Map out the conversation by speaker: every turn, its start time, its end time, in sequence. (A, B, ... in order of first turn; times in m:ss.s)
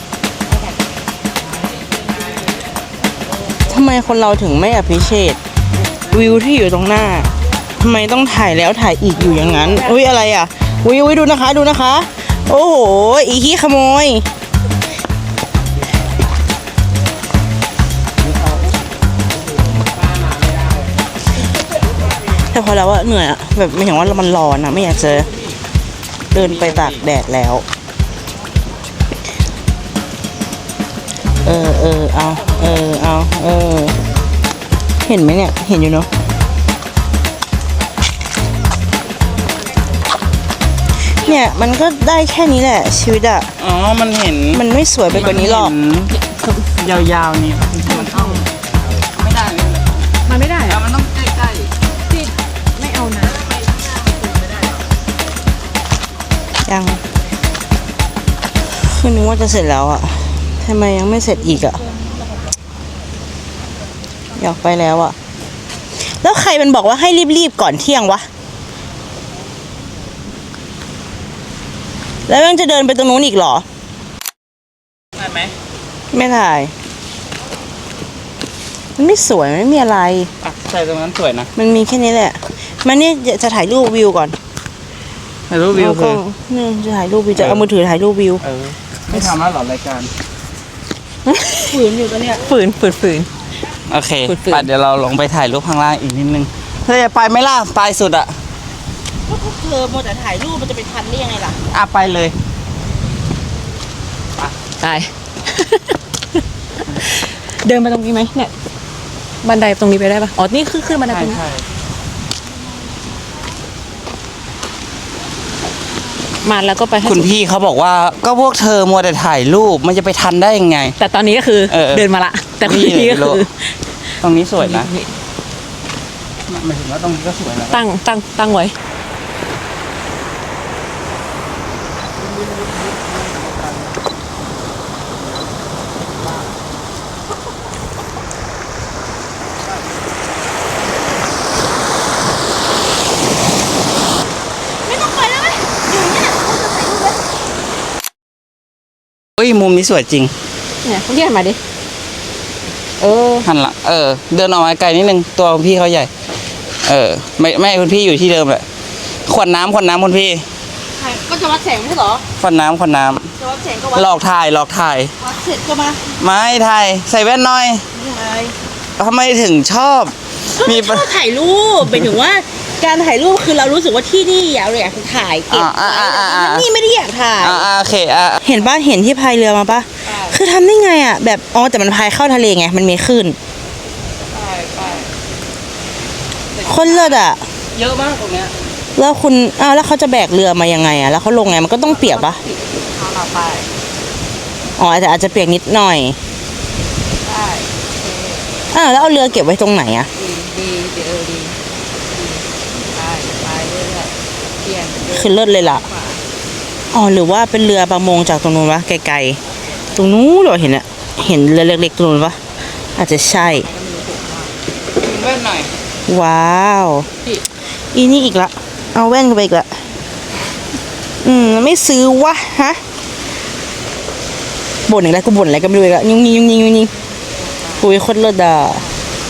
0:03.7-0:05.4 A
0:06.1-0:14.3 A
0:22.3-0:25.3 A
0:26.3-0:27.6 A
0:26.4-0:27.0 B
0:31.4-0:34.0 A
0:35.1-0:36.1 A
0:41.0-0:43.5 A
0:43.6-0:46.1 B
0:44.5-0:45.7 A
0:46.1-0:46.7 C
0:46.8-0:50.0 B
0:47.9-0:48.4 C
0:50.3-0:50.8 C
0:50.7-0:51.7 B
0:52.1-0:53.6 C
0:56.7-0:57.0 A
0:58.6-1:01.8 A
1:04.4-1:05.2 A
1:06.0-1:08.3 A
1:12.3-1:13.6 A
1:15.2-1:15.5 B
1:16.1-1:16.7 A
1:19.0-1:20.3 A
1:20.4-1:21.5 B
1:21.6-1:24.4 A
1:25.5-1:26.2 B
1:25.7-1:28.4 A
1:27.4-1:27.6 B
1:28.4-1:30.1 B
1:31.3-1:31.8 C
1:31.7-1:32.5 A
1:32.5-1:33.3 C
1:33.9-1:38.4 B
1:34.3-1:34.7 C
1:39.3-1:41.6 A
1:41.7-1:42.4 B
1:44.8-1:46.0 C
1:46.9-1:48.5 C
1:49.4-1:51.4 C
1:51.1-1:51.6 B
1:56.4-1:57.3 C
1:57.0-2:01.0 B
2:01.0-2:03.8 C
2:01.7-2:02.1 B
2:02.6-2:03.4 B
2:04.2-2:04.9 B
2:04.6-2:05.1 C
2:06.5-2:07.8 B
2:07.7-2:08.8 C
2:24.8-2:27.2 A
2:29.4-2:30.3 B
2:30.8-2:31.6 C
2:33.0-2:33.5 C
2:33.4-2:36.1 B
2:36.8-2:38.7 B
2:39.3-2:40.5 B
2:40.9-2:42.3 A
2:42.4-2:43.3 B
2:43.4-2:44.2 A
2:43.9-2:45.1 B
2:45.2-2:46.1 A
2:46.1-2:47.9 B
2:47.9-2:48.6 A
2:49.0-2:51.1 B
2:50.6-2:57.7 A
2:55.5-2:56.7 B
2:57.4-2:58.4 B
2:58.4-3:03.4 A
3:04.3-3:05.1 B
3:06.6-3:07.2 B
3:06.6-3:07.5 A
3:07.8-3:08.5 B
3:09.0-3:12.4 A
3:12.0-3:12.4 C
3:13.0-3:13.6 C
3:14.8-3:16.2 A
3:17.3-3:18.5 C
3:18.7-3:20.1 A
3:20.2-3:21.6 C
3:22.1-3:26.2 C
3:25.1-3:25.9 A
3:26.9-3:29.4 A
3:30.0-3:33.7 A
3:33.5-3:34.5 C
3:34.9-3:35.7 B
3:36.1-3:37.1 A
3:37.9-3:39.8 A
3:41.2-3:42.8 A
3:44.9-3:46.9 A
3:47.5-3:47.8 C
3:47.8-3:48.8 A